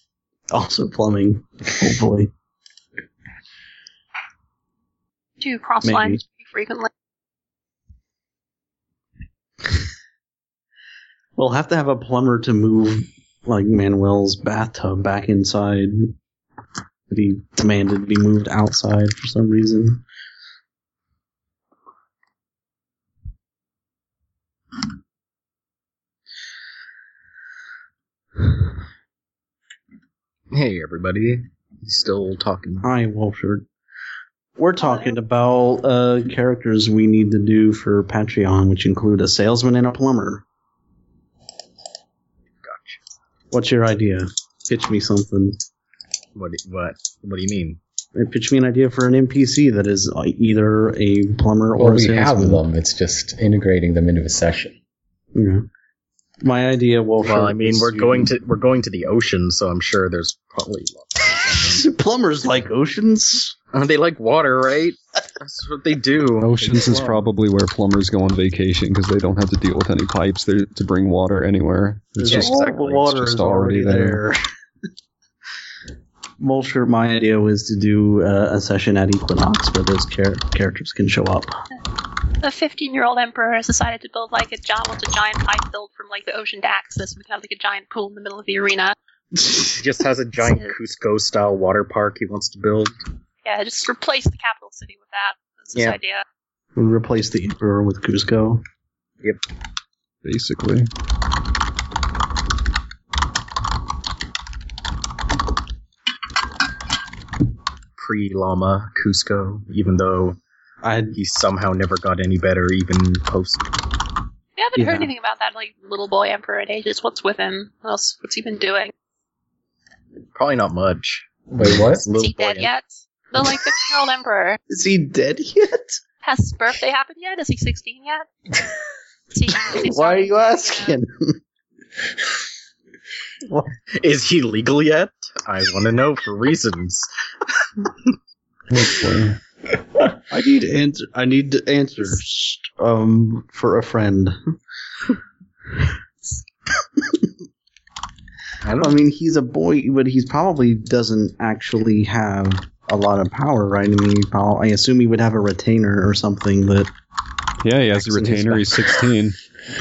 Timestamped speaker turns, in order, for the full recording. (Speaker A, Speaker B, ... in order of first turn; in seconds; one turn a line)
Speaker A: 0.5-2.3
Speaker B: 5.4-6.9
Speaker A: 5.8-6.2
Speaker A: 11.4-16.1
Speaker A: 17.1-20.0
Speaker C: 30.5-32.9
Speaker A: 32.8-33.7
Speaker A: 34.6-40.4
Speaker B: 34.8-35.1
Speaker C: 42.6-43.0
Speaker A: 43.5-45.6
Speaker C: 46.4-47.8
Speaker A: 48.1-52.6
Speaker D: 51.8-54.8
Speaker A: 55.4-55.7
Speaker A: 56.4-58.3
Speaker C: 57.2-61.9
Speaker A: 61.7-63.6
Speaker C: 63.7-67.2
Speaker E: 66.4-74.2
Speaker A: 72.2-74.4
Speaker C: 72.2-73.2
Speaker A: 76.4-81.6
Speaker B: 82.4-89.0
Speaker A: 89.4-89.7
Speaker C: 89.8-93.0
Speaker B: 90.4-90.8
Speaker B: 93.5-96.2
Speaker A: 96.8-98.6
Speaker E: 100.2-100.9
Speaker C: 108.0-110.4
Speaker A: 110.8-111.2
Speaker C: 111.1-113.7
Speaker B: 114.6-118.9
Speaker A: 114.8-115.1
Speaker C: 120.3-122.7
Speaker D: 121.5-122.1
Speaker B: 122.2-124.6
Speaker A: 124.7-126.0
Speaker B: 126.2-128.3
Speaker B: 129.3-131.0
Speaker A: 129.5-131.4
Speaker C: 133.9-137.1
Speaker E: 138.7-139.4
Speaker A: 140.3-144.4
Speaker C: 148.7-149.0
Speaker A: 148.8-156.9
Speaker E: 157.6-159.4
Speaker A: 158.1-159.0